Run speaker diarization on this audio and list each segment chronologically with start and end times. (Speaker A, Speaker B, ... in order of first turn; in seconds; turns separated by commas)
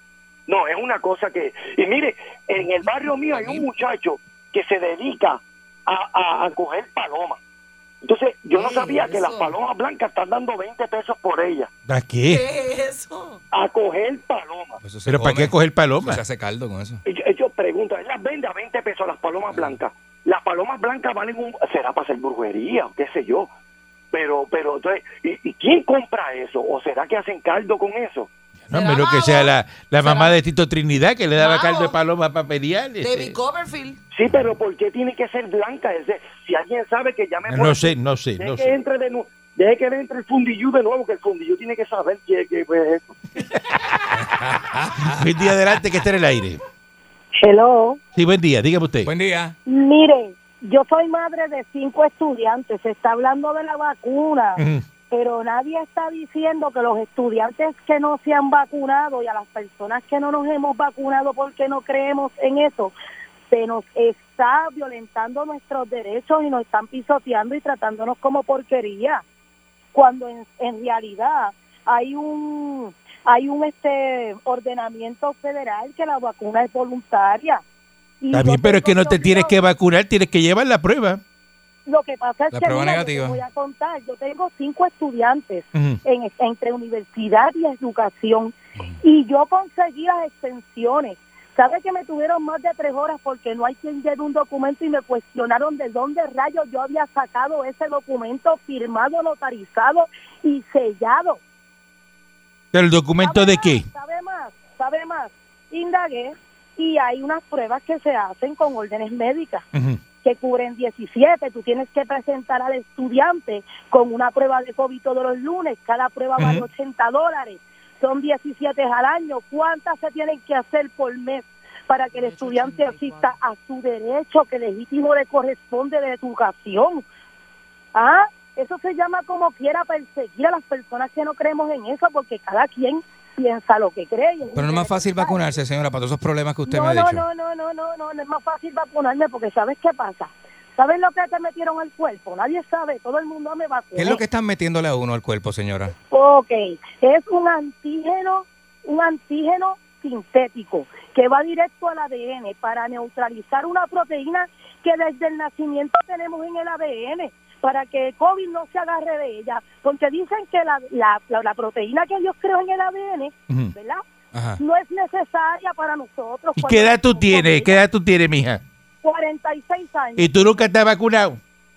Speaker A: 0.5-7.4, Speaker B: 3.3-3.7, Speaker A: 8.0-11.7, Speaker C: 8.5-9.5, Speaker D: 11.9-12.4, Speaker C: 12.3-13.4, Speaker A: 13.5-14.8, Speaker B: 14.8-17.0, Speaker D: 15.1-16.2, Speaker A: 17.1-23.5, Speaker B: 19.5-19.8, Speaker A: 24.1-28.3, Speaker D: 28.6-33.4, Speaker C: 28.7-30.4, Speaker C: 31.4-31.9, Speaker C: 33.0-34.0, Speaker A: 34.1-43.1, Speaker D: 37.5-38.7, Speaker D: 43.5-44.1, Speaker B: 44.1-45.6, Speaker D: 45.0-46.6, Speaker E: 47.4-48.0, Speaker D: 48.1-49.1, Speaker B: 49.0-49.5, Speaker E: 49.6-62.9, Speaker D: 54.6-54.8, Speaker E: 63.5-69.2, Speaker E: 69.9-77.6, Speaker E: 78.2-79.5, Speaker D: 78.3-81.2, Speaker E: 81.8-101.4, Speaker B: 82.5-83.4, Speaker D: 85.7-86.0, Speaker D: 102.7-103.8, Speaker E: 103.2-109.6, Speaker D: 109.7-110.0, Speaker E: 110.2-127.0, Speaker D: 116.4-116.7, Speaker C: 122.1-123.3, Speaker E: 127.9-135.4, Speaker B: 134.5-137.2, Speaker E: 136.7-144.2, Speaker B: 143.9-145.9, Speaker E: 146.1-164.0, Speaker D: 163.5-163.7, Speaker B: 164.3-164.6, Speaker E: 164.6-167.8, Speaker D: 166.6-168.6, Speaker E: 169.0-170.5, Speaker D: 170.2-171.4